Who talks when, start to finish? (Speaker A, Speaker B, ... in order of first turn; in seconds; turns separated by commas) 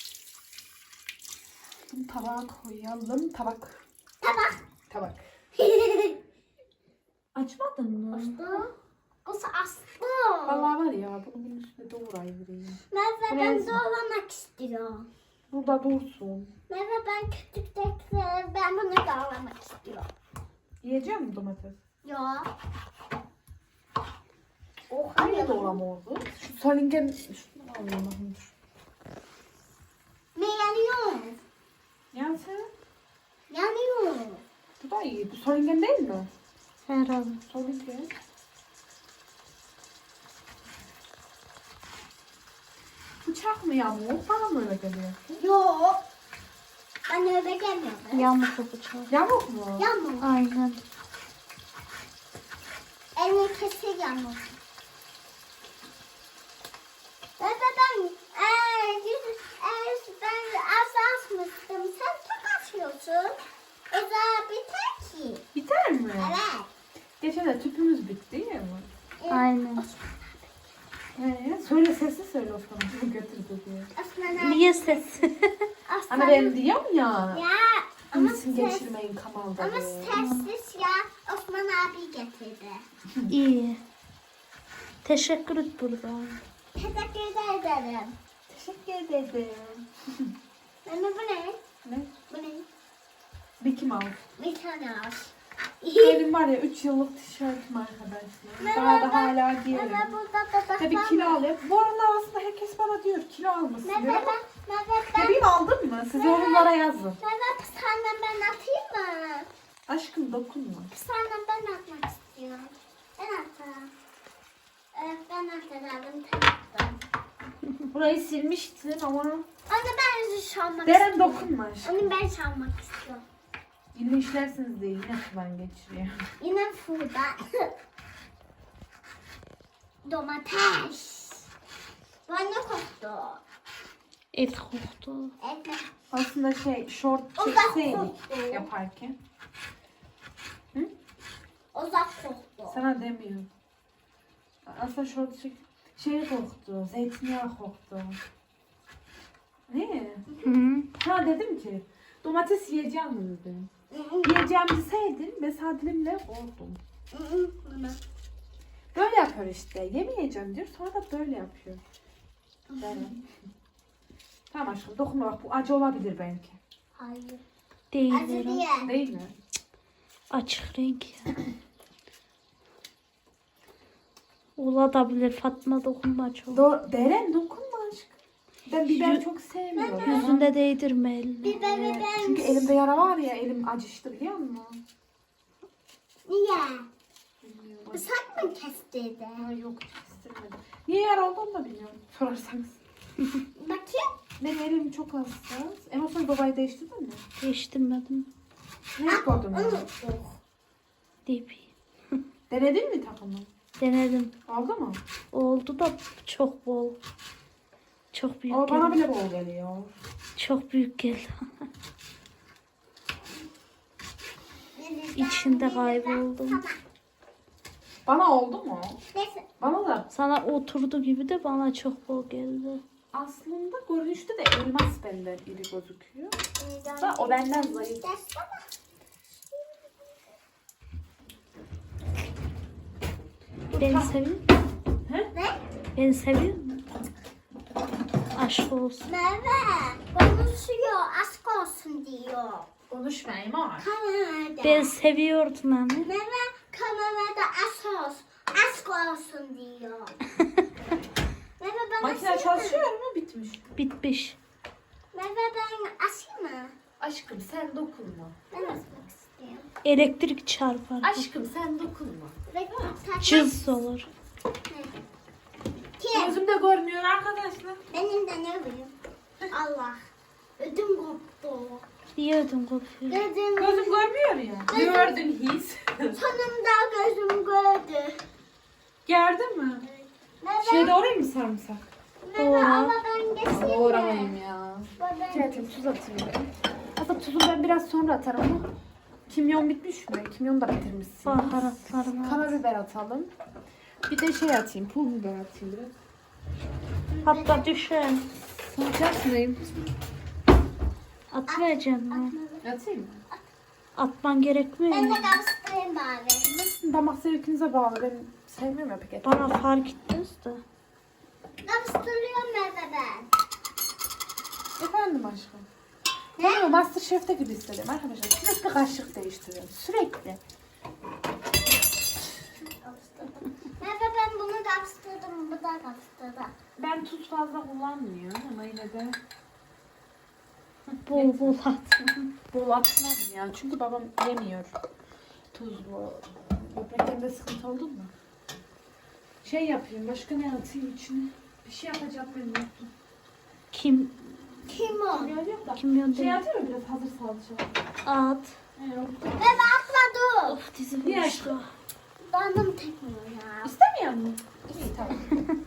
Speaker A: 1.9-3.8, Speaker B: 4.2-4.6, Speaker A: 4.9-5.2, Speaker B: 5.5-6.2, Speaker A: 7.3-8.6, Speaker B: 8.1-8.7, Speaker B: 9.2-10.7, Speaker A: 10.4-13.8, Speaker B: 12.9-15.1, Speaker A: 15.5-16.5, Speaker B: 16.7-20.1, Speaker A: 20.8-21.8, Speaker B: 22.0-22.5, Speaker B: 24.9-25.8, Speaker A: 25.1-28.5, Speaker B: 30.3-31.4, Speaker A: 32.1-32.7, Speaker B: 33.5-34.4, Speaker A: 34.8-36.3, Speaker C: 36.9-37.4, Speaker A: 37.5-38.1, Speaker A: 43.2-45.4, Speaker B: 45.4-46.0, Speaker B: 47.1-48.3, Speaker C: 48.1-49.1, Speaker A: 49.1-49.9, Speaker B: 49.8-50.3, Speaker C: 50.2-50.8, Speaker B: 53.1-54.6, Speaker B: 57.4-65.4, Speaker A: 65.5-66.4, Speaker B: 66.2-66.7, Speaker A: 67.2-68.9, Speaker B: 69.2-70.6, Speaker C: 69.3-69.8, Speaker A: 71.1-73.9, Speaker B: 73.9-75.2, Speaker C: 74.4-75.7, Speaker B: 75.9-76.5, Speaker A: 76.1-77.4, Speaker B: 77.3-78.9, Speaker A: 78.1-80.2, Speaker B: 79.6-82.8, Speaker C: 80.1-80.5, Speaker A: 83.1-83.3, Speaker C: 83.3-83.8, Speaker C: 85.0-86.4, Speaker B: 86.8-88.2, Speaker A: 88.5-90.3, Speaker B: 90.8-91.6, Speaker A: 91.8-92.1, Speaker B: 92.3-92.7, Speaker A: 93.6-94.2, Speaker B: 94.4-95.3, Speaker B: 95.8-96.2, Speaker A: 96.0-100.1, Speaker B: 98.6-101.4, Speaker A: 100.8-104.4, Speaker B: 103.8-105.4, Speaker A: 105.1-107.2, Speaker B: 106.1-109.5, Speaker A: 109.9-110.9, Speaker B: 110.9-113.9, Speaker B: 114.9-117.0, Speaker A: 117.9-119.5, Speaker B: 119.7-123.2, Speaker A: 120.8-122.1, Speaker A: 123.9-126.2, Speaker B: 126.4-127.7, Speaker B: 130.0-131.5, Speaker B: 132.3-133.4, Speaker C: 134.3-135.3, Speaker B: 135.4-135.8, Speaker A: 136.1-139.2, Speaker B: 137.3-138.7, Speaker B: 141.7-142.8, Speaker A: 142.7-143.5, Speaker A: 144.6-148.2, Speaker A: 149.7-150.3, Speaker C: 150.4-150.9, Speaker A: 151.0-153.7, Speaker B: 153.9-154.4, Speaker A: 154.2-156.8, Speaker B: 157.1-158.0, Speaker A: 158.9-161.8, Speaker B: 162.7-163.2, Speaker A: 162.8-163.1, Speaker A: 164.5-166.6, Speaker B: 166.9-167.4, Speaker C: 167.9-168.6, Speaker B: 168.1-168.9, Speaker A: 168.8-169.3, Speaker C: 170.3-171.3, Speaker C: 174.6-176.6, Speaker A: 176.5-180.5, Speaker C: 178.9-179.2, Speaker B: 179.7-180.3, Speaker C: 180.0-181.6, Speaker B: 181.4-182.7, Speaker A: 181.5-184.8, Speaker B: 186.2-186.9, Speaker A: 187.4-188.5, Speaker B: 187.9-189.5, Speaker A: 189.3-192.8, Speaker B: 193.6-194.2, Speaker A: 194.4-197.2, Speaker C: 197.4-198.3, Speaker A: 198.9-199.9, Speaker B: 199.1-200.3, Speaker C: 201.3-202.2, Speaker A: 202.5-203.5, Speaker C: 203.8-204.3, Speaker A: 204.5-205.0, Speaker C: 205.3-207.0, Speaker C: 208.1-209.0, Speaker A: 208.5-209.9, Speaker C: 210.4-211.6, Speaker B: 214.8-216.8, Speaker C: 215.2-216.6, Speaker A: 218.1-219.0, Speaker B: 219.1-219.5, Speaker A: 219.6-220.1, Speaker C: 220.1-222.8, Speaker A: 223.1-226.4, Speaker B: 226.6-228.7, Speaker A: 227.0-228.1, Speaker A: 233.7-234.4, Speaker C: 233.7-234.4, Speaker A: 235.0-235.3, Speaker B: 235.3-235.6, Speaker C: 235.9-236.8, Speaker C: 238.3-239.1, Speaker B: 239.1-242.7, Speaker A: 242.9-243.9, Speaker B: 243.8-244.9, Speaker C: 244.6-246.1, Speaker B: 246.0-250.2, Speaker B: 251.6-252.9, Speaker A: 252.0-253.7, Speaker C: 253.8-254.4, Speaker B: 255.1-256.7, Speaker A: 257.0-258.8, Speaker B: 258.5-259.7, Speaker C: 259.8-261.2, Speaker A: 261.0-262.4, Speaker B: 262.5-263.6, Speaker C: 263.2-264.1, Speaker B: 266.0-266.4, Speaker A: 266.1-267.8, Speaker B: 267.9-268.9, Speaker B: 269.5-271.8, Speaker C: 272.1-273.3, Speaker B: 273.1-274.1, Speaker A: 273.6-276.2, Speaker B: 274.7-275.2, Speaker B: 276.1-278.2, Speaker A: 279.1-279.8, Speaker B: 279.8-280.9, Speaker A: 280.6-281.9, Speaker B: 282.2-284.4, Speaker C: 282.4-282.9, Speaker A: 283.5-288.7, Speaker B: 285.0-285.7, Speaker A: 289.3-293.3, Speaker C: 291.2-292.6, Speaker A: 294.1-295.9, Speaker B: 297.1-297.7, Speaker C: 297.2-298.3, Speaker A: 298.5-299.7, Speaker C: 301.3-302.4, Speaker B: 301.5-302.6, Speaker A: 302.6-303.2, Speaker C: 303.9-305.4, Speaker B: 304.9-306.5, Speaker A: 306.4-309.6, Speaker C: 309.2-310.6, Speaker B: 311.6-313.3, Speaker A: 314.8-315.7, Speaker B: 316.4-316.7, Speaker A: 316.4-320.4, Speaker B: 322.6-326.5, Speaker A: 326.8-329.2, Speaker C: 331.0-332.3, Speaker A: 331.1-331.5, Speaker A: 332.5-334.8, Speaker A: 335.5-338.1, Speaker A: 339.4-342.9, Speaker C: 343.7-344.7, Speaker B: 344.7-345.4, Speaker A: 345.1-347.8, Speaker C: 345.8-346.4, Speaker C: 348.0-348.6, Speaker A: 348.8-349.7, Speaker B: 349.4-350.6, Speaker C: 350.5-351.7, Speaker A: 351.0-351.6, Speaker B: 352.2-353.7, Speaker A: 353.6-355.3, Speaker B: 354.7-355.4